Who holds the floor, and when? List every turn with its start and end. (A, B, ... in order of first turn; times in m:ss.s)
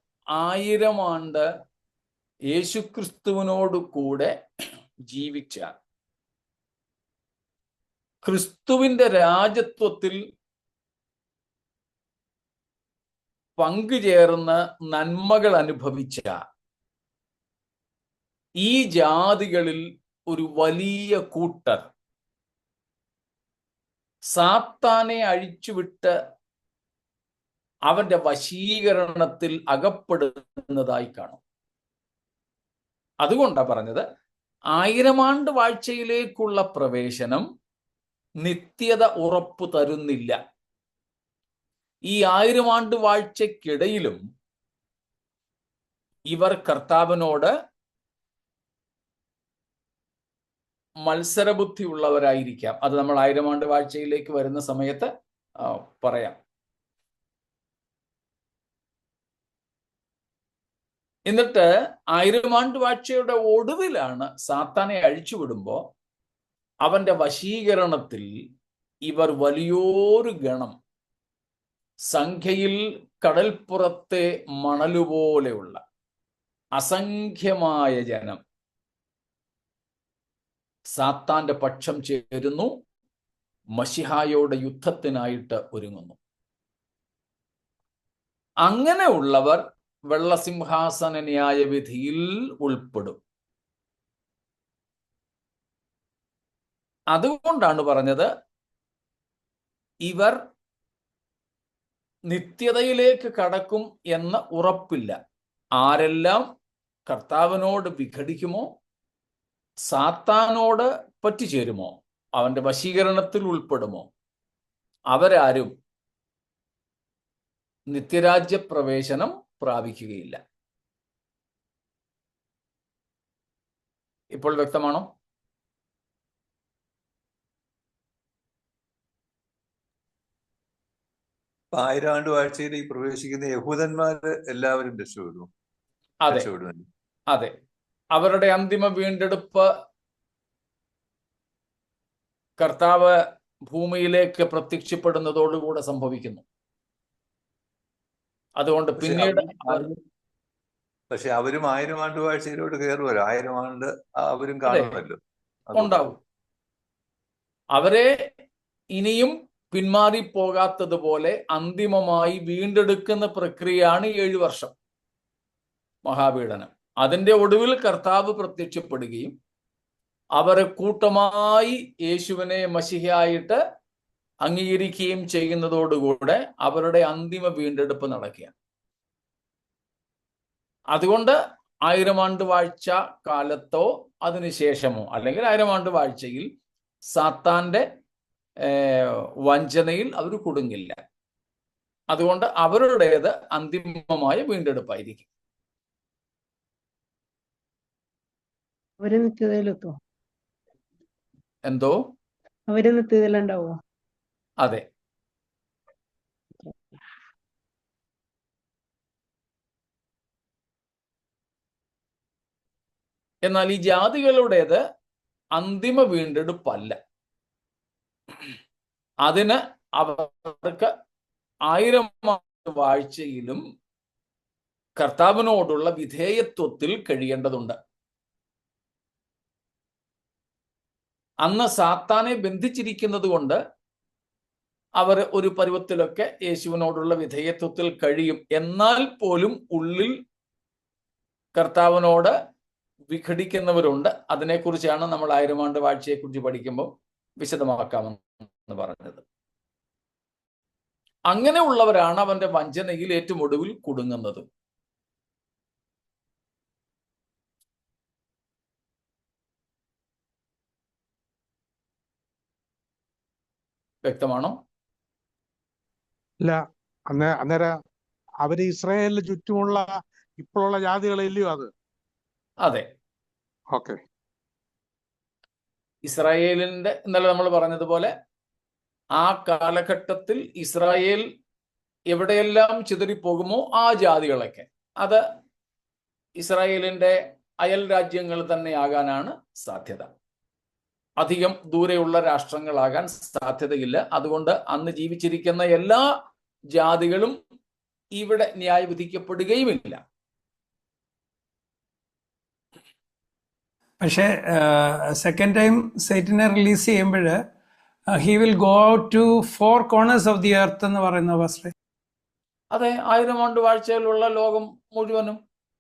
0:00.4-0:01.4 A
0:02.5-0:04.3 A
0:05.1-0:05.7 A
0:08.2-0:10.2 A
0:13.6-0:16.3 A
0:18.6-0:21.9 A
0:24.3-0:26.1 A
0:27.9-0:31.4 A
0:33.2-0:34.0 A
0:34.7-0:37.4 A
0:38.4-0:40.4 A
0:42.1-0:44.2 A
0:46.3-0:47.5 A
0:51.0-0:55.1 A
0:55.6-0:56.4 A
1:01.3-1:05.8 A
1:06.8-1:08.3 A
1:09.1-1:10.7 A
1:12.1-1:15.8 A
1:16.8-1:18.4 A
1:20.9-1:22.7 A
1:23.8-1:26.2 A
1:28.6-1:33.2 A
1:37.1-1:38.3 A
1:40.0-1:40.4 A
1:42.3-1:45.2 A
1:45.8-1:46.5 A
1:47.1-1:48.7 A
1:49.9-1:54.1 A
1:55.1-1:55.7 A
1:57.9-2:00.4 A
2:04.3-2:05.0 A
2:11.7-2:15.5 B
2:16.3-2:16.9 B
2:18.1-2:19.7 A
2:22.6-2:26.4 A
2:28.6-2:29.9 A
2:29.0-2:30.0 B
2:31.1-2:36.2 B
2:34.7-2:34.9 A
2:35.8-2:36.2 A
2:37.7-2:38.1 A
2:39.0-2:44.7 A
2:46.0-2:49.3 A
2:50.4-2:53.6 A
2:54.4-2:58.5 A
3:00.9-3:06.5 A
3:07.1-3:07.8 A
3:08.6-3:11.0 A
3:12.1-3:15.3 A
3:19.0-3:20.0 C
3:21.7-3:22.0 A
3:22.7-3:23.7 C
3:33.4-3:34.8 A
3:35.6-3:37.0 A
3:39.2-3:40.9 A
3:41.7-3:43.6 A
3:45.0-3:47.8 A
3:51.4-3:53.6 A
3:55.0-4:00.2 A
4:01.6-4:02.4 A
4:03.1-4:09.2 A
4:11.3-4:14.5 A
4:24.0-4:24.6 A
4:26.4-4:27.7 D
4:28.4-4:31.7 D
4:33.7-4:34.0 D
4:36.0-4:38.1 A
4:39.2-4:41.2 A
4:42.1-4:45.2 A
4:46.4-4:50.1 A
4:51.2-4:56.0 A
4:56.7-4:57.4 A
4:58.2-5:00.0 A
5:04.0-5:07.4 E
5:08.1-5:11.7 E
5:12.7-5:15.4 A